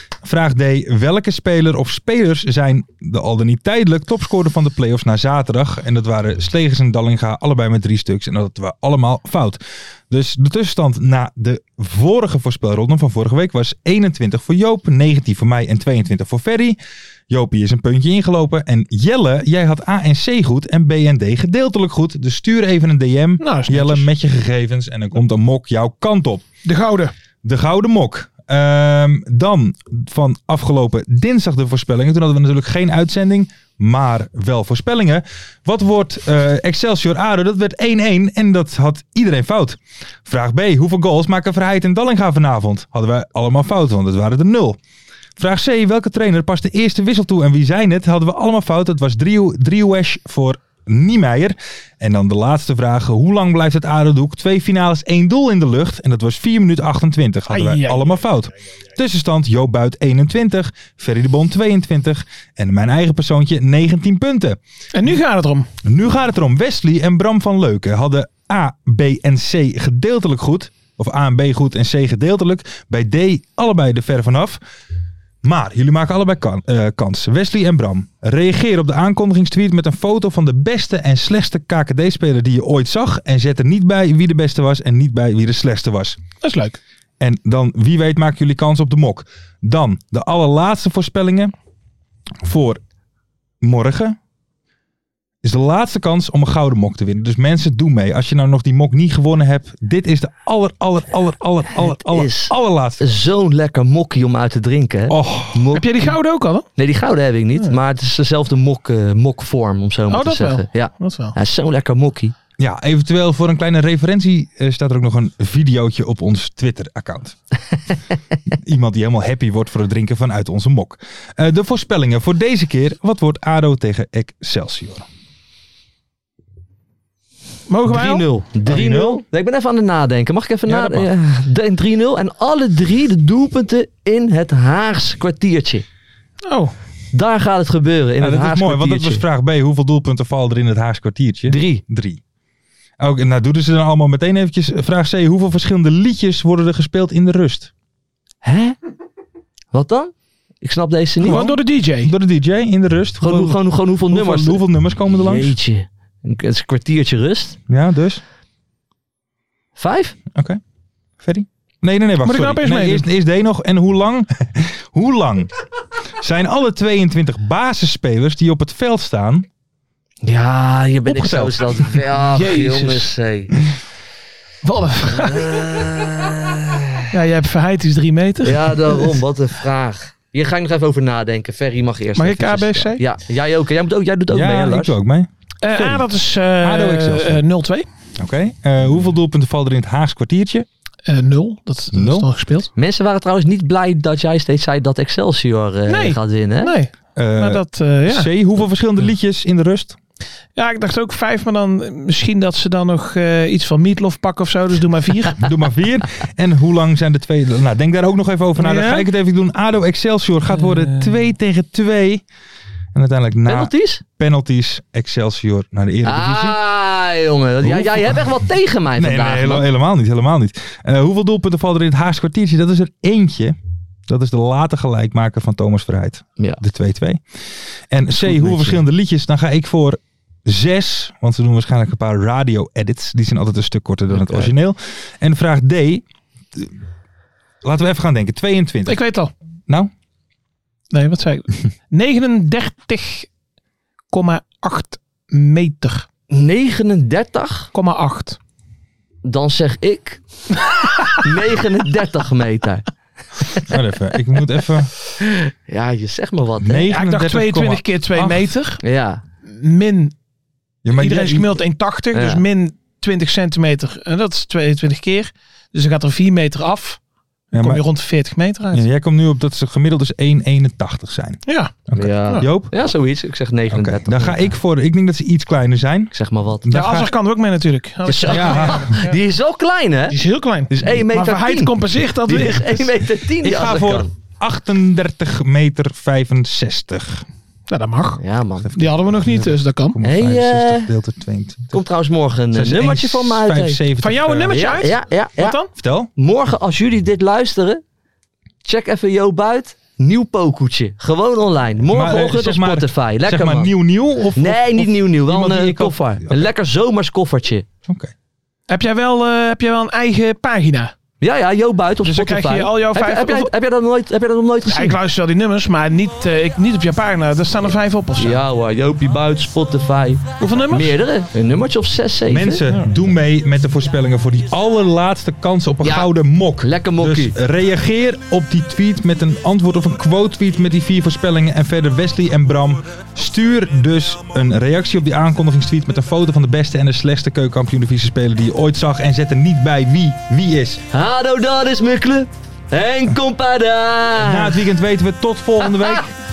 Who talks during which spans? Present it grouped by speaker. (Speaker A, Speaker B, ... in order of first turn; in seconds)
Speaker A: 0.2-16.8, 17.3-26.4, 27.4-44.8, 45.4-64.6, 65.8-74.6, 75.4-86.2, 87.2-91.5, 92.4-92.8, 93.6-94.2, 95.4-103.0, 105.1-105.8, 112.6-117.4, 118.5-125.1, 128.7-129.2, 130.7-131.1, 138.2-142.2, 143.0-147.7, 151.2-155.6, 157.7-158.2, 160.3-160.6, 161.2-165.5, 166.2-169.5, 171.1-172.0, 184.3-186.1, 186.6-187.4, 188.2-190.7, 191.9-192.3, 197.2-200.0, 205.4-212.2, 212.9-216.6, 217.6-218.3, 219.0-227.2, 227.9-236.7, 237.6-239.0, 253.6-254.9, 256.6-258.5, 260.8-261.6, 267.5-267.8, 268.7-272.7, 273.7-277.1, 278.2-279.0, 283.1-287.2, 288.6-291.8, 292.5-294.8, 295.8-296.1, 301.9-306.5, 307.9-308.1, 322.3-340.8, 344.2-346.1
Speaker B: 23.4-24.1, 26.6-27.1, 57.5-58.0, 64.9-65.7, 86.4-86.8, 105.7-106.7, 110.1-111.3, 127.7-128.2, 136.4-136.7, 151.2-152.1, 162.2-163.1, 172.3-173.1, 174.6-175.6, 177.1-179.2, 182.2-183.0, 185.6-187.8, 191.1-192.7, 195.9-198.3, 200.6-205.5, 208.6-209.1, 210.6-211.1, 238.9-239.3, 240.9-243.3, 244.1-246.1, 247.7-248.4, 256.9-258.8, 259.4-260.1, 260.9-267.0, 267.5-268.8, 271.4-271.7, 276.7-279.2, 280.1-282.8, 287.7-288.2, 288.8-290.0, 294.0-295.7, 308.7-310.9, 312.0-313.5, 314.7-318.4, 320.4-321.0
Speaker C: 101.8-105.9, 106.8-112.3, 127.9-135.8, 137.1-139.2, 141.5-141.8, 148.4-148.8, 149.7-151.4, 153.2-157.6, 159.8-160.2, 170.2-173.5, 175.1-177.1, 178.4-184.9, 192.8-196.7, 213.4-214.0, 216.1-219.7, 228.1-228.8, 246.3-247.7, 249.2-250.2, 251.1-252.8, 255.2-256.9, 258.8-259.2, 262.1-262.4, 271.9-274.5, 276.1-276.7, 278.1-284.1, 288.2-288.7, 290.0-290.9, 291.7-293.8, 294.5-295.6, 296.1-297.8, 298.6-303.7, 304.4-307.6, 311.2-315.0, 318.2-322.6, 325.8-327.4, 340.9-344.6, 345.6-346.1